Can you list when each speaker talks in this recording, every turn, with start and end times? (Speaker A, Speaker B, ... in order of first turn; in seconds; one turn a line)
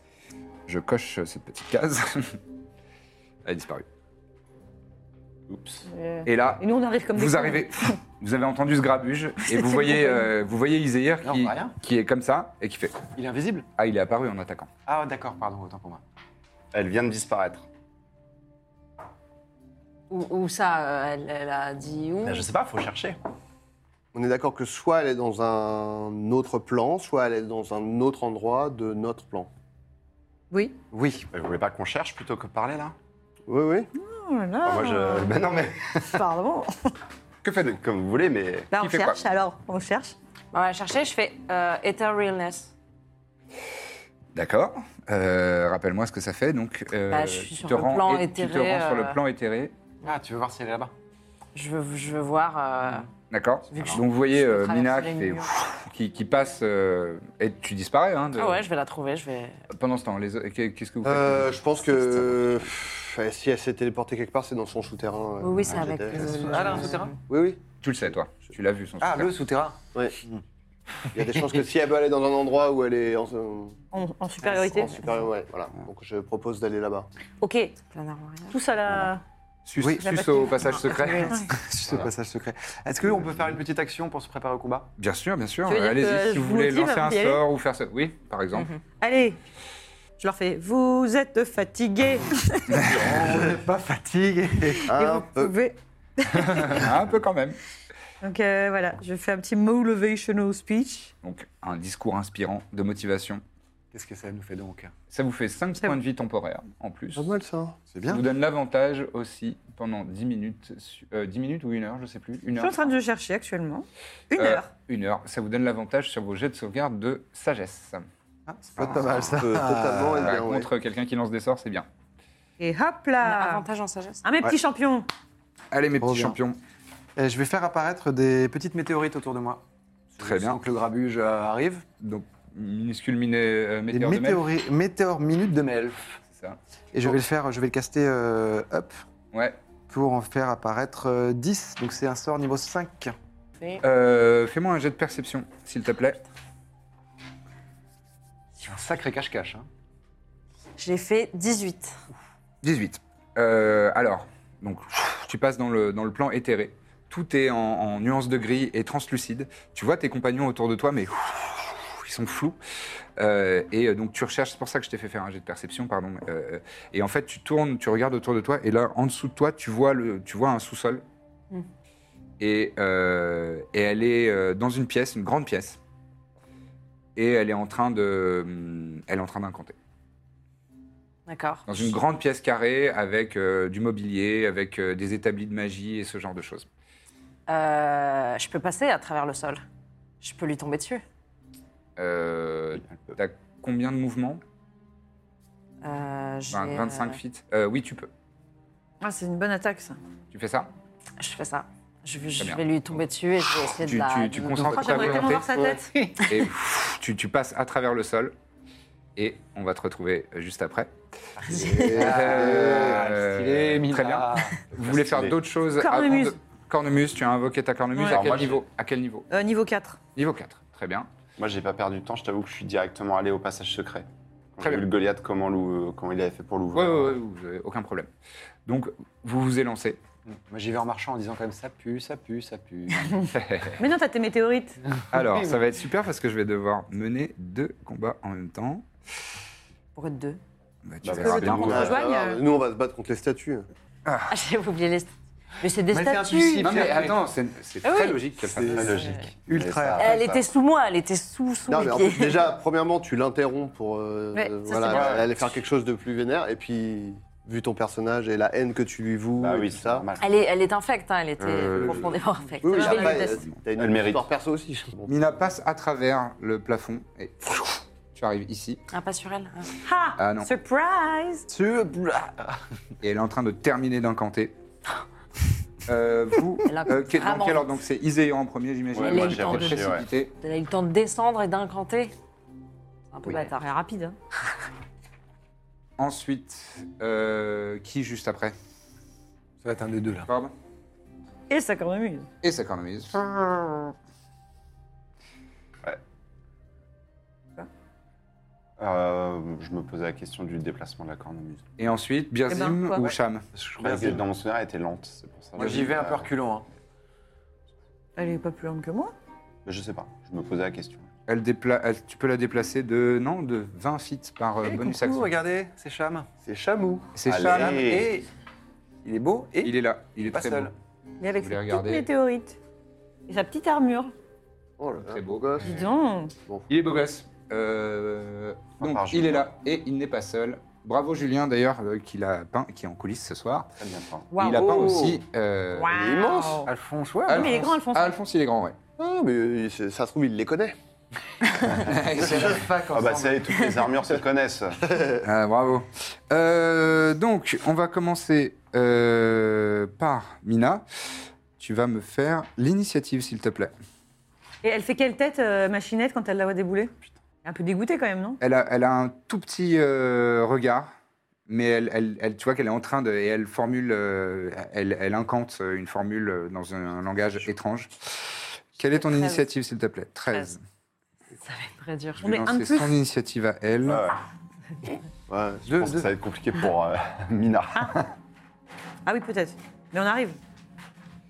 Speaker A: 0.7-2.4
Speaker A: 3.5-3.9
Speaker B: 5.5-5.8
Speaker C: 5.9-8.0
Speaker A: 6.3-13.1
Speaker C: 9.5-10.3
Speaker D: 11.2-11.8
Speaker D: 13.2-13.7
Speaker A: 13.8-14.7
Speaker D: 14.9-16.0
Speaker B: 16.7-17.7
Speaker E: 20.1-22.5
Speaker B: 22.2-23.2
Speaker F: 24.1-29.5
Speaker C: 30.5-30.8
Speaker D: 30.9-31.3
Speaker B: 31.3-33.0
Speaker F: 33.5-33.9
Speaker C: 34.0-35.4
Speaker B: 34.6-36.2
Speaker C: 36.0-36.9
Speaker A: 37.4-37.8
Speaker B: 37.5-38.7
Speaker C: 38.7-40.2
Speaker A: 38.8-39.2
Speaker E: 40.5-42.7
Speaker A: 44.3-49.7
Speaker E: 47.1-49.2
Speaker D: 50.0-50.9
Speaker E: 51.5-53.1
Speaker A: 53.3-58.7
Speaker E: 53.7-55.5
Speaker E: 58.4-59.6
Speaker A: 59.7-61.8
Speaker F: 61.0-67.6
Speaker B: 62.0-62.7
Speaker E: 65.4-67.2
Speaker D: 66.2-67.2
Speaker A: 67.8-69.3
Speaker D: 69.0-70.4
Speaker F: 71.1-73.8
Speaker C: 73.9-75.0
Speaker F: 74.7-77.1
Speaker C: 77.4-77.8
Speaker E: 77.9-78.6
Speaker C: 78.5-79.2
Speaker A: 79.7-81.5
Speaker D: 79.8-80.1
Speaker C: 80.0-81.6
Speaker E: 80.7-81.4
Speaker D: 81.4-84.9
Speaker A: 85.0-88.7
Speaker C: 85.7-87.4
Speaker E: 88.5-88.8
Speaker C: 89.0-89.4
Speaker C: 90.2-93.0
Speaker D: 92.8-95.0
Speaker C: 94.9-96.9
Speaker F: 94.9-95.5
Speaker A: 96.3-97.6
Speaker C: 98.2-101.1
Speaker A: 101.2-103.4
Speaker D: 103.9-104.9
Speaker A: 105.1-107.3
Speaker F: 107.2-107.8
Speaker D: 107.9-108.2
Speaker A: 108.1-112.9
Speaker C: 112.6-114.7
Speaker A: 114.3-118.0
Speaker D: 118.5-120.3
Speaker B: 118.8-119.4
Speaker F: 119.4-120.7
Speaker A: 120.2-121.9
Speaker C: 122.6-123.7
Speaker E: 123.2-124.2
Speaker C: 124.2-125.1
Speaker A: 125.7-126.6
Speaker D: 126.0-126.4
Speaker D: 127.2-129.6
Speaker D: 130.1-131.9
Speaker A: 130.2-130.6
Speaker A: 132.0-134.4
Speaker D: 133.9-136.2
Speaker A: 136.3-137.1
Speaker D: 136.9-139.0
Speaker A: 139.3-139.6
Speaker D: 139.9-143.2
Speaker A: 143.8-146.2
Speaker D: 148.6-149.7
Speaker E: 150.8-152.0
Speaker A: 152.6-162.6
Speaker A: 163.2-171.0
Speaker A: 172.4-175.8
Speaker A: 177.2-179.8
Speaker E: 181.3-181.8
Speaker A: 181.7-186.7
Speaker E: 187.5-189.6
Speaker E: 190.2-191.0
Speaker A: 192.0-194.4
Speaker E: 195.8-197.2
Speaker A: 196.5-198.1
Speaker C: 199.0-200.0
Speaker A: 200.3-200.7
Speaker E: 201.2-204.6
Speaker A: 202.4-202.6
Speaker A: 203.8-205.5
Speaker D: 204.6-204.9
Speaker C: 204.7-206.1
Speaker D: 205.6-206.3
Speaker A: 206.2-208.3
Speaker A: 209.2-210.9
Speaker D: 211.4-214.7
Speaker E: 211.5-211.9
Speaker A: 211.5-219.3
Speaker F: 211.7-212.9
Speaker B: 214.8-215.4
Speaker C: 215.8-216.4
Speaker C: 217.9-218.2
Speaker B: 218.1-218.6
Speaker C: 219.3-220.0
Speaker A: 220.2-221.1
Speaker B: 221.4-227.2
Speaker A: 226.7-228.1
Speaker A: 228.7-230.0
Speaker D: 230.3-233.3
Speaker A: 233.3-233.8
Speaker C: 233.8-234.8
Speaker A: 235.1-238.8
Speaker D: 235.1-235.5
Speaker E: 239.9-240.4
Speaker A: 240.8-241.9
Speaker B: 241.0-242.0
Speaker C: 241.2-242.4
Speaker F: 241.5-243.7
Speaker A: 244.1-244.3
Speaker E: 244.3-245.1
Speaker E: 245.6-246.9
Speaker D: 245.9-247.2
Speaker A: 246.6-249.0
Speaker F: 248.5-249.0
Speaker B: 248.7-250.4
Speaker E: 248.9-249.2
Speaker D: 249.5-250.2
Speaker E: 249.9-252.5
Speaker F: 251.7-260.1
Speaker E: 254.6-255.1
Speaker B: 254.9-255.3
Speaker B: 259.4-260.3
Speaker E: 260.2-263.4
Speaker B: 261.4-262.1
Speaker A: 261.7-262.1
Speaker F: 262.6-265.2
Speaker C: 262.7-263.3
Speaker B: 263.8-264.3
Speaker A: 265.1-268.8
Speaker E: 268.9-269.7
Speaker C: 269.8-271.5
Speaker A: 270.2-270.5
Speaker D: 271.5-272.6
Speaker A: 273.0-274.6
Speaker A: 275.9-280.3
Speaker E: 276.7-277.8
Speaker B: 278.9-280.1
Speaker E: 279.0-279.8
Speaker E: 280.4-282.1
Speaker E: 283.1-283.7
Speaker C: 283.3-284.2
Speaker A: 286.0-288.6
Speaker D: 289.6-290.3
Speaker A: 290.3-290.5
Speaker C: 291.5-292.3
Speaker A: 292.4-293.9
Speaker B: 298.8-301.6
Speaker A: 301.8-303.4
Speaker C: 302.5-303.1
Speaker D: 303.5-304.2
Speaker B: 303.8-306.3
Speaker D: 305.6-306.7
Speaker C: 308.2-309.1
Speaker B: 309.6-311.1
Speaker A: 311.3-315.3
Speaker D: 314.6-316.3
Speaker F: 316.4-317.1
Speaker A: 317.1-318.0
Speaker B: 317.3-318.1
Speaker D: 317.4-318.3
Speaker D: 319.0-319.8
Speaker A: 319.6-320.7
Speaker D: 320.3-320.7
Speaker C: 321.2-322.6
Speaker A: 321.4-322.1
Speaker C: 323.3-324.1
Speaker F: 324.8-325.9
Speaker A: 325.0-325.7
Speaker C: 325.6-326.3
Speaker A: 326.7-333.7
Speaker B: 328.8-329.5
Speaker B: 333.8-334.3
Speaker C: 334.3-335.1
Speaker A: 334.4-335.9
Speaker C: 335.7-336.7
Speaker F: 335.9-336.7
Speaker D: 336.6-337.7
Speaker C: 337.3-338.1
Speaker A: 337.3-338.8
Speaker F: 339.0-340.8
Speaker A: 341.7-342.7
Speaker D: 342.2-343.6
Speaker B: 342.9-344.8
Speaker F: 344.9-345.2
Speaker A: 345.2-350.8
Speaker A: 351.6-353.7
Speaker C: 354.6-356.9
Speaker C: 357.4-358.4
Speaker A: 358.4-360.9
Speaker A: 361.5-370.6
Speaker E: 368.9-369.5
Speaker E: 371.4-372.2
Speaker A: 372.2-374.1
Speaker C: 372.2-373.0
Speaker B: 373.9-374.2
Speaker F: 375.3-375.7
Speaker D: 375.7-376.1
Speaker B: 375.7-378.1
Speaker C: 379.1-380.4